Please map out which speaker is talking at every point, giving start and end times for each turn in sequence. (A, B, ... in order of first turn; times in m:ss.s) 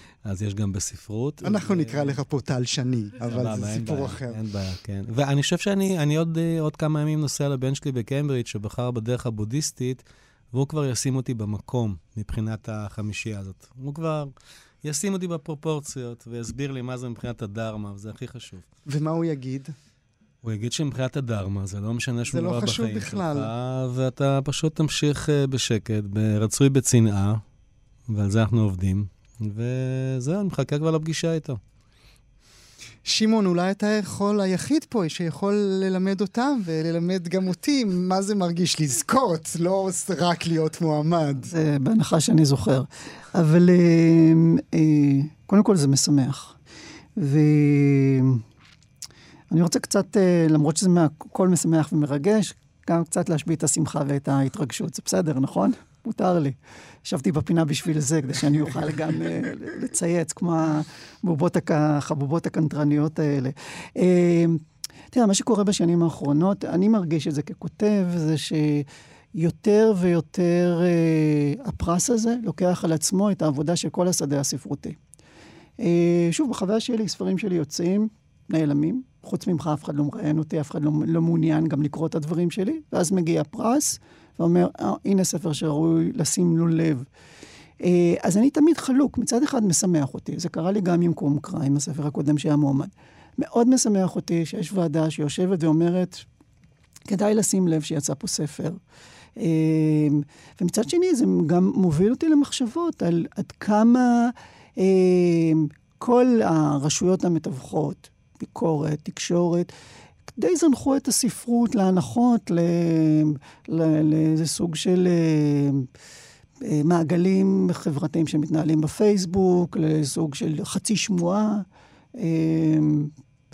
0:00.2-0:02.2 A
0:01.4-0:04.4 B
0:03.2-0:14.3 A
0:14.8-0:18.6 A
0:18.9-0:19.7 B
0:20.4-0:27.4 A
0:22.3-0:23.5 B
0:28.1-0:31.6 A
0:33.0-0:41.5 B
0:41.5-0:46.6 C
0:47.2-0:48.4 C
0:49.5-1:15.0 C
1:15.8-1:27.1 C
1:27.8-1:36.2 C
1:37.1-1:38.8 C
1:39.4-1:49.7 C
1:50.3-1:55.9 C
1:56.6-2:01.6 C
2:02.2-2:03.1 C